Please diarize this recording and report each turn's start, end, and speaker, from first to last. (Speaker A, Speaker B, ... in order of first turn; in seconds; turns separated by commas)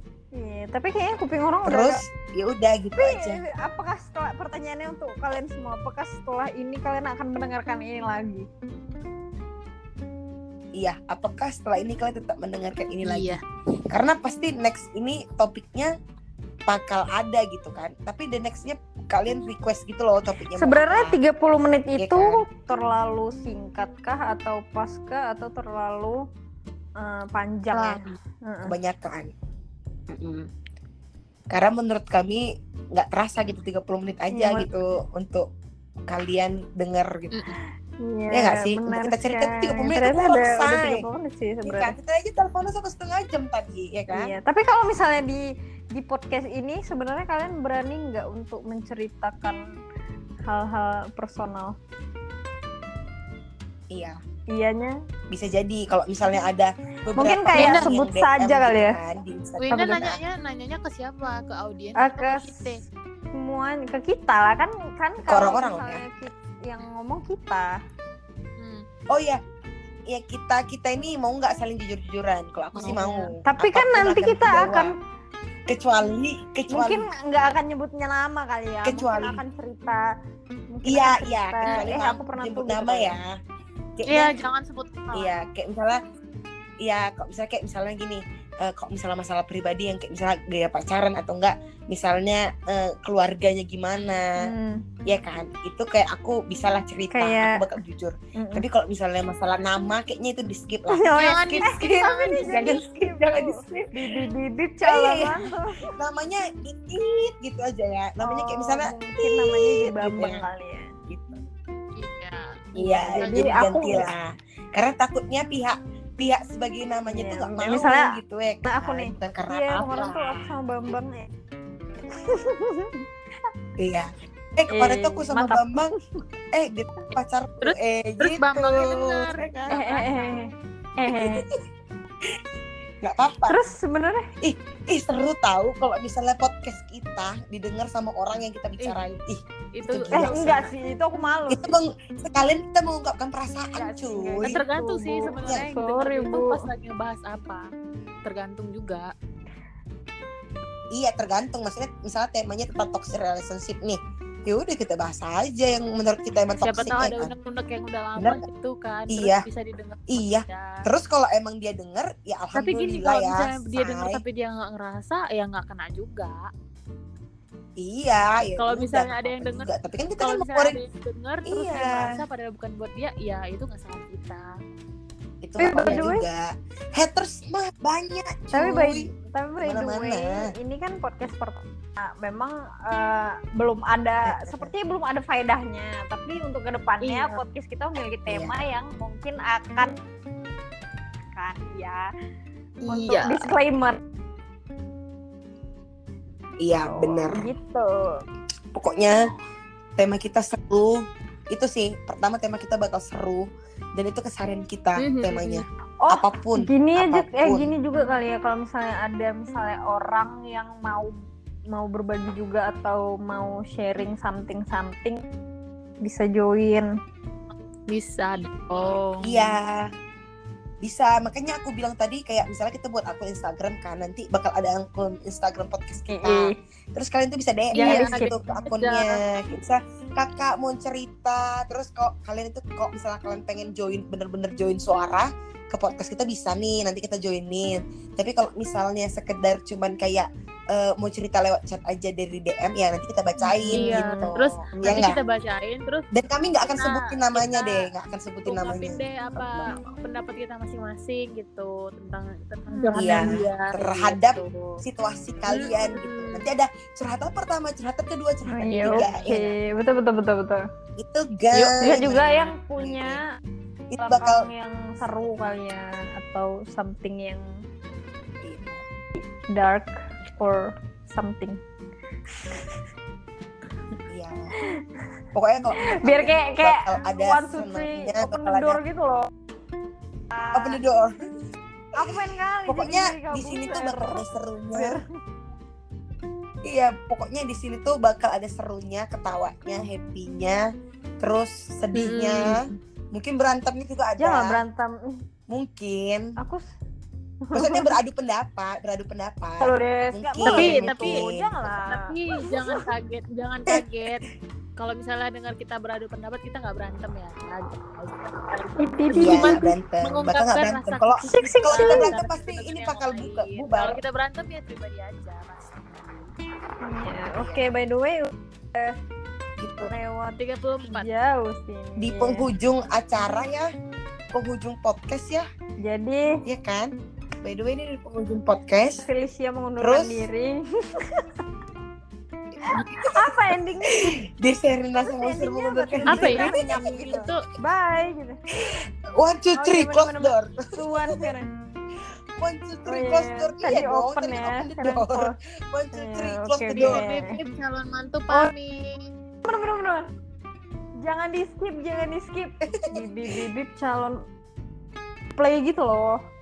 Speaker A: 0.4-2.0, Speaker B: 1.6-3.4, Speaker A: 3.0-8.5, Speaker B: 10.8-13.4, Speaker C: 13.0-13.4, Speaker B: 13.9-15.9, Speaker B: 16.7-21.2, Speaker A: 20.5-26.2, Speaker B: 22.0-22.4, Speaker A: 27.0-28.8, Speaker C: 27.7-28.2, Speaker B: 28.6-29.3, Speaker B: 30.1-30.5, Speaker B: 31.5-35.5, Speaker A: 34.3-34.7, Speaker B: 36.1-37.4, Speaker A: 38.0-42.0, Speaker B: 38.3-41.1, Speaker B: 41.6-44.3, Speaker A: 44.1-49.6, Speaker A: 50.5-51.8, Speaker B: 53.9-54.2, Speaker A: 54.5-55.0, Speaker B: 55.3-60.2, Speaker A: 57.2-59.0, Speaker C: 57.5-57.9, Speaker C: 59.6-62.8, Speaker A: 62.0-62.6, Speaker A: 63.3-67.8, Speaker B: 65.3-66.0, Speaker C: 68.6-68.8, Speaker B: 69.1-69.4, Speaker B: 70.1-74.9, Speaker A: 72.8-75.0, Speaker B: 75.7-77.1, Speaker A: 76.7-80.0, Speaker B: 78.8-79.4, Speaker A: 80.7-83.2, Speaker B: 80.9-83.3, Speaker C: 81.7-81.9, Speaker B: 84.0-84.4, Speaker C: 84.1-85.4, Speaker B: 85.1-86.0, Speaker B: 86.8-94.4, Speaker A: 94.4-94.8, Speaker B: 95.0-103.9, Speaker A: 97.1-97.6, Speaker A: 98.4-98.7, Speaker A: 100.9-105.9, Speaker C: 101.2-102.8, Speaker B: 104.8-110.5, Speaker A: 108.2-110.9, Speaker B: 111.1-111.4, Speaker C: 112.0-113.7, Speaker B: 112.8-120.5, Speaker A: 112.8-114.1, Speaker A: 117.1-121.3, Speaker A: 122.1-123.0, Speaker B: 123.8-125.9, Speaker A: 124.7-125.9, Speaker B: 126.5-129.8, Speaker C: 127.6-130.3, Speaker A: 129.7-131.4, Speaker B: 131.1-131.5, Speaker B: 133.0-133.6, Speaker A: 133.5-134.3, Speaker B: 134.4-140.7, Speaker C: 139.7-140.7, Speaker A: 140.1-141.7, Speaker B: 141.5-144.6, Speaker A: 143.8-146.7, Speaker C: 144.4-147.7, Speaker B: 145.4-145.6, Speaker C: 148.2-149.1, Speaker B: 150.9-157.3, Speaker C: 156.6-160.9, Speaker B: 158.2-158.5, Speaker B: 159.1-159.4, Speaker B: 160.1-164.2, Speaker C: 162.6-166.5, Speaker B: 167.8-170.8, Speaker C: 168.6-169.7, Speaker C: 170.2-174.6, Speaker B: 171.5-172.2, Speaker B: 175.4-179.1, Speaker A: 175.6-176.3, Speaker A: 178.5-190.0, Speaker B: 179.6-180.5, Speaker B: 184.3-184.7, Speaker C: 187.0-187.4, Speaker B: 188.3-188.6, Speaker A: 191.3-192.1, Speaker C: 192.8-193.5, Speaker A: 192.9-194.0, Speaker B: 196.6-197.5, Speaker A: 196.8-198.2, Speaker B: 198.7-199.3, Speaker B: 200.0-207.7, Speaker A: 205.0-211.2, Speaker A: 211.7-215.2, Speaker A: 216.0-216.9, Speaker C: 217.9-219.6, Speaker B: 219.2-219.9, Speaker B: 220.8-245.2, Speaker A: 226.1-226.6, Speaker A: 227.8-228.3, Speaker C: 227.8-229.2, Speaker A: 243.4-244.3, Speaker C: 243.7-246.1, Speaker B: 246.1-249.9, Speaker C: 246.8-247.9, Speaker C: 248.5-254.8, Speaker A: 252.7-253.4, Speaker B: 252.9-259.6, Speaker C: 255.5-256.5, Speaker A: 258.5-260.6, Speaker B: 261.0-263.2, Speaker A: 261.6-263.2, Speaker B: 263.9-264.5, Speaker A: 264.0-267.6, Speaker B: 265.0-265.3, Speaker B: 268.4-268.8, Speaker A: 269.1-271.6, Speaker A: 272.4-272.7, Speaker B: 274.1-274.5, Speaker A: 274.6-274.9, Speaker B: 275.3-278.8, Speaker A: 275.8-279.3, Speaker A: 280.3-280.8, Speaker B: 280.5-281.2, Speaker A: 282.0-285.1, Speaker B: 282.0-285.0, Speaker B: 286.6-294.6, Speaker C: 291.9-292.8, Speaker A: 294.2-295.2, Speaker B: 295.5-296.3, Speaker A: 296.4-296.7, Speaker A: 297.4-298.0, Speaker B: 297.5-301.8, Speaker A: 299.6-302.8, Speaker C: 300.4-301.2, Speaker C: 301.9-316.4, Speaker A: 308.8-309.6, Speaker B: 309.1-314.0, Speaker A: 311.2-312.1, Speaker A: 316.8-319.0, Speaker B: 317.4-317.7, Speaker B: 319.6-319.9, Speaker A: 319.8-322.5, Speaker C: 320.4-321.1, Speaker B: 322.0-323.7, Speaker B: 324.3-325.5, Speaker A: 325.8-326.4, Speaker B: 326.5-326.9, Speaker B: 327.4-329.1, Speaker A: 329.0-331.3, Speaker B: 329.8-330.3, Speaker B: 332.6-337.2, Speaker A: 332.6-334.2, Speaker A: 335.1-338.4, Speaker C: 336.1-337.4, Speaker B: 338.6-340.6, Speaker A: 339.6-341.5, Speaker B: 342.4-347.1, Speaker A: 342.9-345.4, Speaker A: 345.9-347.4, Speaker C: 346.7-349.1, Speaker A: 349.4-350.1, Speaker A: 351.0-354.3, Speaker B: 352.6-353.4, Speaker A: 355.4-356.2